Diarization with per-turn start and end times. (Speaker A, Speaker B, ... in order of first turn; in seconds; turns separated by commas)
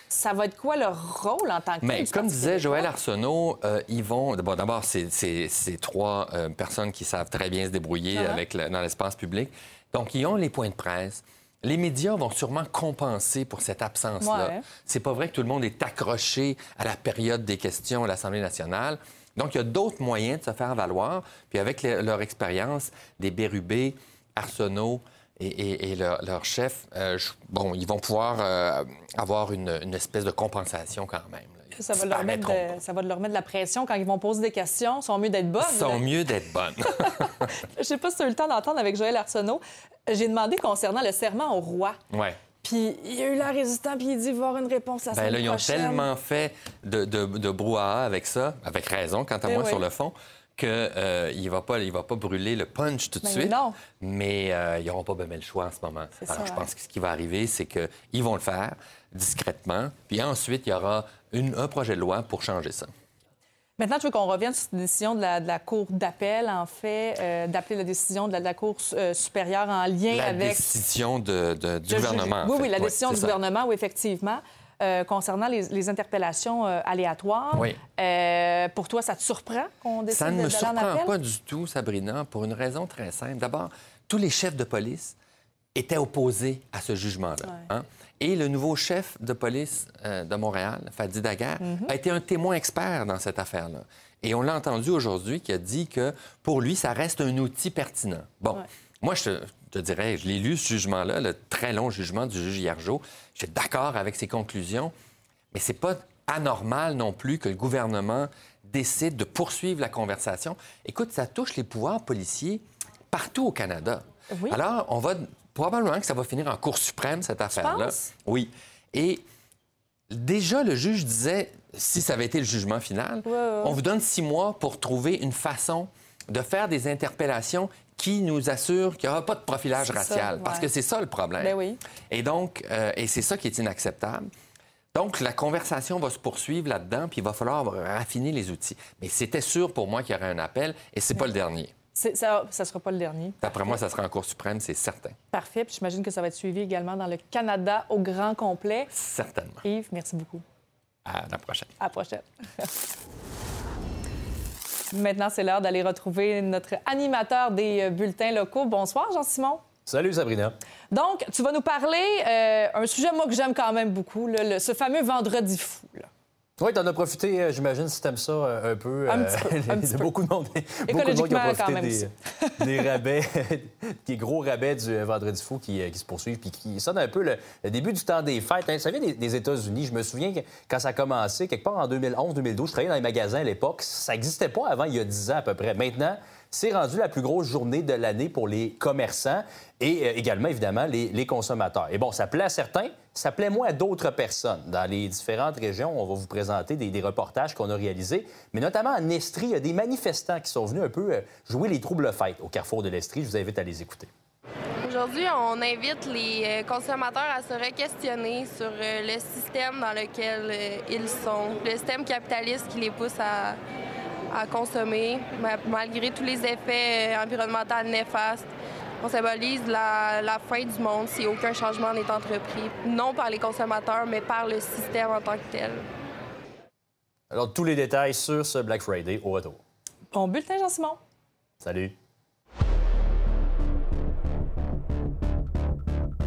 Speaker A: 0.1-2.9, Speaker B: 1.8-32.7, Speaker A: 8.1-8.4, Speaker A: 14.2-14.6, Speaker A: 31.8-36.0, Speaker B: 35.6-37.5, Speaker A: 37.0-42.0, Speaker B: 42.1-42.4, Speaker A: 42.6-46.1, Speaker B: 45.1-62.9, Speaker A: 49.5-49.8, Speaker A: 53.2-53.8, Speaker A: 56.2-56.7, Speaker A: 63.8-70.8, Speaker B: 70.1-73.4, Speaker A: 71.9-81.1, Speaker B: 80.1-85.2, Speaker B: 85.8-104.9, Speaker A: 87.4-87.7, Speaker A: 91.6-91.9, Speaker B: 105.5-119.2, Speaker A: 114.3-114.6, Speaker A: 117.5-118.1, Speaker B: 120.1-131.6, Speaker A: 123.2-123.8, Speaker A: 129.8-130.7, Speaker A: 131.4-131.8, Speaker B: 132.1-134.3, Speaker B: 134.9-141.7, Speaker A: 141.9-143.8, Speaker B: 143.4-145.2, Speaker A: 145.3-148.9, Speaker B: 148.9-149.6, Speaker A: 149.6-150.4, Speaker B: 151.1-151.7, Speaker A: 151.8-152.7, Speaker A: 154.9-159.6, Speaker C: 159.9-160.6, Speaker A: 160.9-166.1, Speaker C: 166.6-204.1, Speaker A: 169.1-170.1, Speaker A: 170.8-172.5, Speaker D: 204.8-213.6, Speaker D: 214.3-218.5, Speaker D: 219.0-225.8, Speaker C: 227.3-229.6, Speaker A: 230.1-231.0, Speaker C: 231.6-232.0